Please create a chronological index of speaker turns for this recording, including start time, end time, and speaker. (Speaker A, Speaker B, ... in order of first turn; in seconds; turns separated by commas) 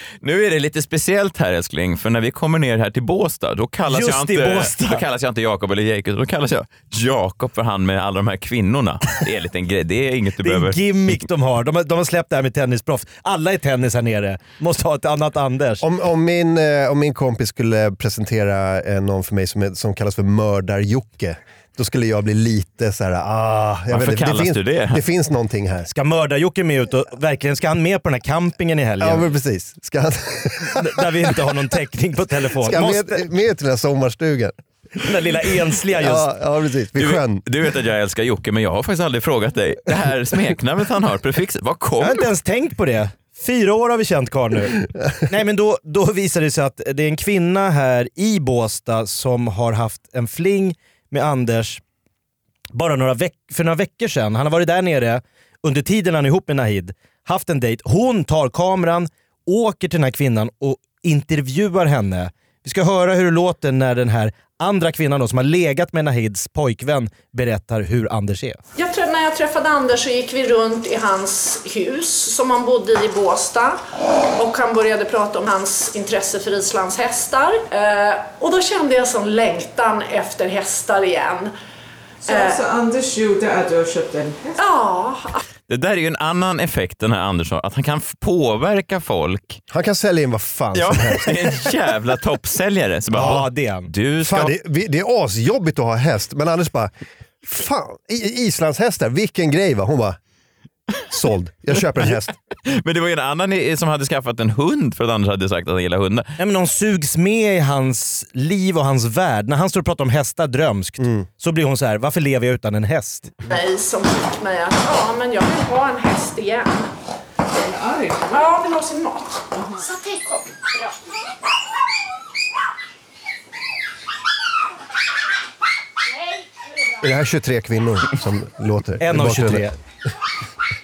Speaker A: 0.2-11.2, Speaker B: 3.9-5.0, Speaker B: 10.4-15.8, Speaker C: 15.8-25.9, Speaker A: 23.9-25.0, Speaker B: 25.9-29.3, Speaker C: 29.0-31.5, Speaker B: 30.6-33.2, Speaker C: 32.5-34.5, Speaker B: 35.0-36.3, Speaker C: 36.0-37.4, Speaker A: 37.0-42.2, Speaker B: 42.0-51.8, Speaker B: 52.7-68.6, Speaker D: 68.8-73.8, Speaker D: 74.3-81.5, Speaker E: 82.2-84.6, Speaker D: 82.3-82.6, Speaker D: 84.6-85.4, Speaker A: 85.7-89.6, Speaker C: 89.7-91.5, Speaker A: 90.7-94.5, Speaker B: 93.1-93.9, Speaker C: 94.2-96.9, Speaker C: 97.4-100.2, Speaker C: 101.1-102.3, Speaker A: 102.7-106.3, Speaker B: 106.4-113.4, Speaker C: 111.0-111.3, Speaker D: 113.5-116.9, Speaker E: 117.5-118.4, Speaker D: 118.3-120.9, Speaker C: 127.0-129.7, Speaker B: 129.0-129.7